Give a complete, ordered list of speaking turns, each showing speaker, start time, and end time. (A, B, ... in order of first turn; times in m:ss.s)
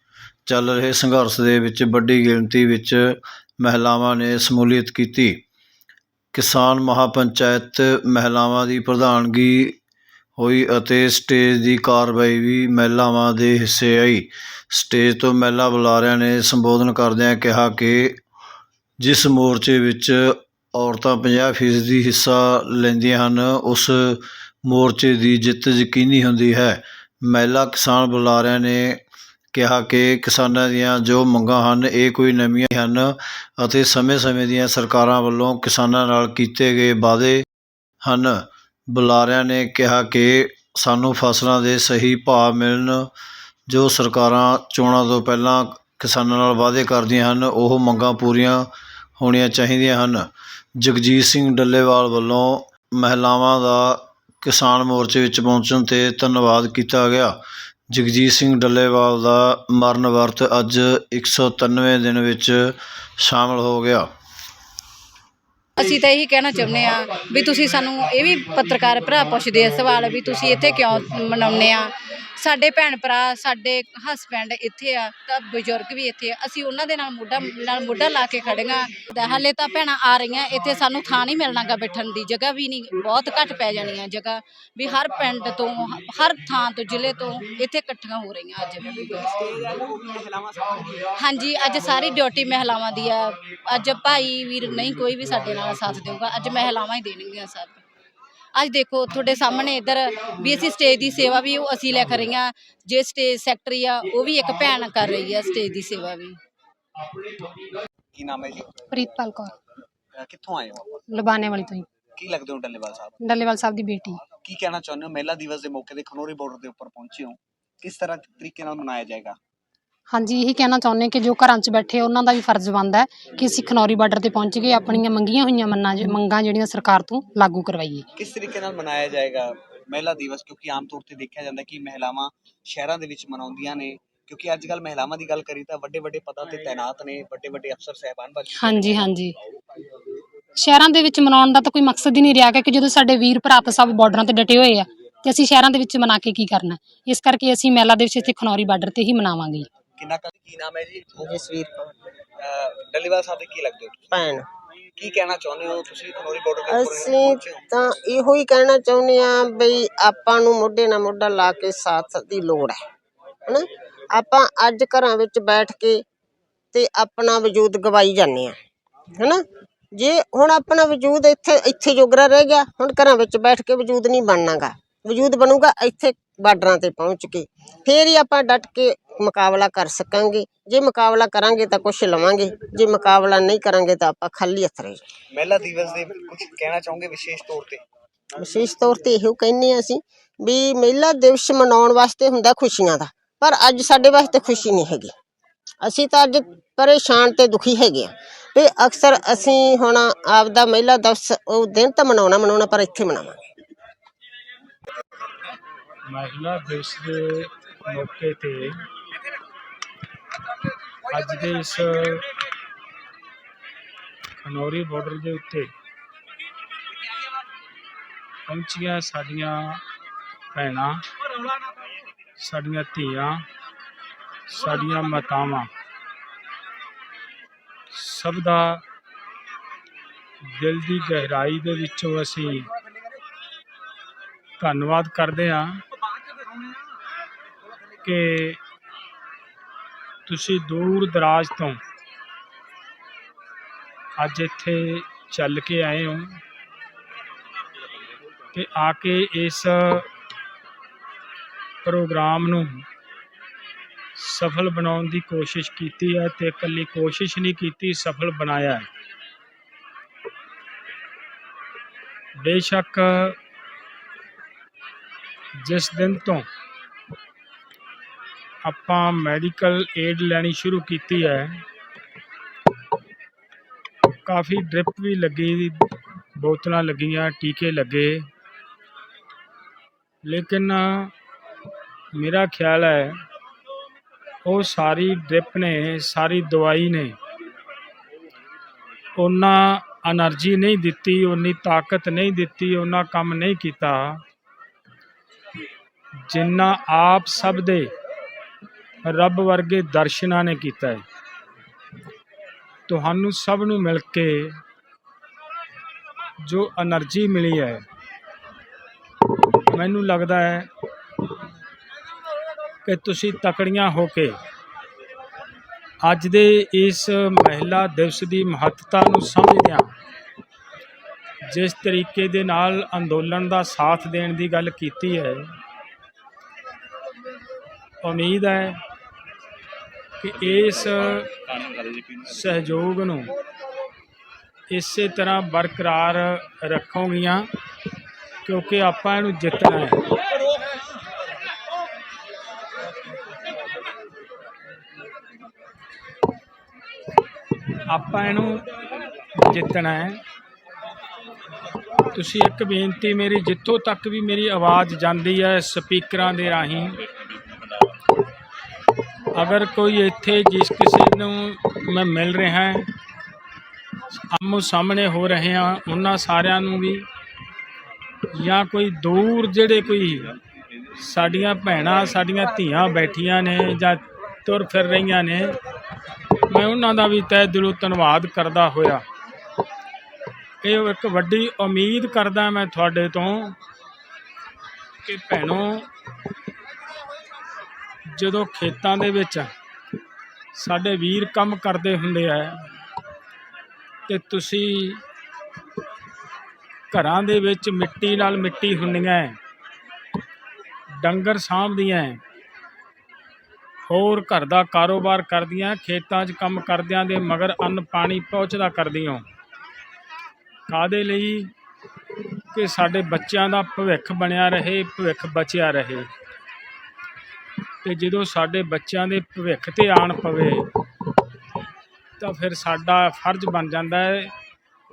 0:00.5-0:05.4 A
0:06.3-0:09.8 A
0:10.4-0:18.2 A
0:19.0-0:29.0 A
0:29.5-0:37.4 A
0:38.0-0:43.1 A
0:43.7-0:48.7 A
0:49.2-0:50.2 A
0:50.8-0:57.4 A
0:57.9-1:04.1 A
1:05.8-1:29.3 B
1:28.8-1:31.0 C
1:31.2-1:37.8 B
1:38.6-1:46.4 B
1:48.2-1:48.9 C
1:48.9-1:49.5 D
1:50.2-1:50.9 C
1:51.1-1:51.9 D
1:52.2-1:53.2 C
1:53.2-1:54.2 D
1:54.3-1:59.4 C
2:00.1-2:08.0 D
2:08.2-2:19.1 C
2:18.5-2:19.3 D
2:20.6-2:29.7 D
2:30.0-2:31.2 C
2:31.2-2:31.9 E
2:32.4-2:34.1 C
2:34.1-2:34.5 E
2:35.0-2:37.6 C
2:36.7-2:42.8 E
2:43.5-2:46.0 E
2:46.7-2:48.6 E
2:49.1-3:05.0 E
3:05.3-3:07.8 C
3:08.3-3:15.1 E
3:15.8-3:23.4 E
3:26.1-3:28.8 F
3:31.1-3:32.2 F
3:34.4-3:35.7 F
3:38.5-3:39.8 F
3:40.5-3:41.0 F
3:42.4-3:43.4 F
3:44.5-3:45.7 F
3:47.9-3:48.8 F
3:50.5-3:52.7 F
3:54.6-3:55.8 F
3:58.0-3:58.6 F
4:00.2-4:01.8 F
4:04.2-4:06.4 F
4:08.5-4:10.1 F
4:11.8-4:12.9 F
4:14.2-4:18.9 F
4:22.4-4:23.4 F
4:25.6-4:26.4 F
4:28.6-4:31.6 F
4:34.2-4:38.3 F
4:40.2-4:41.1 F
4:42.1-4:43.2 F
4:44.4-4:47.2 F
4:49.2-4:54.2 F
4:56.3-4:57.9 F
4:59.0-5:01.0 F
5:02.9-5:04.6 F
5:06.4-5:07.8 F
5:09.7-5:10.7 F
5:12.8-5:14.4 F
5:16.0-5:19.9 F
5:21.4-5:25.4 F
5:28.0-5:28.8 F
5:30.2-5:31.4 F
5:32.2-5:33.3 F
5:34.7-5:37.5 F
5:38.4-5:40.0 F
5:47.8-5:48.6 F
5:49.3-5:50.2 F
5:52.1-5:57.0 F
5:59.3-6:02.9 F
6:04.1-6:07.1 F
6:08.3-6:10.3 F
6:11.0-6:15.6 F
6:16.5-6:19.0 F
6:20.6-6:23.6 F
6:25.0-6:25.9 F
6:28.1-6:29.5 F
6:30.5-6:32.6 F
6:34.1-6:35.0 F
6:36.9-6:39.4 F
6:41.0-6:42.2 F
6:43.9-6:49.2 F
6:50.7-6:51.5 F
6:52.5-6:56.1 F
6:57.8-7:00.7 F
7:02.2-7:04.3 F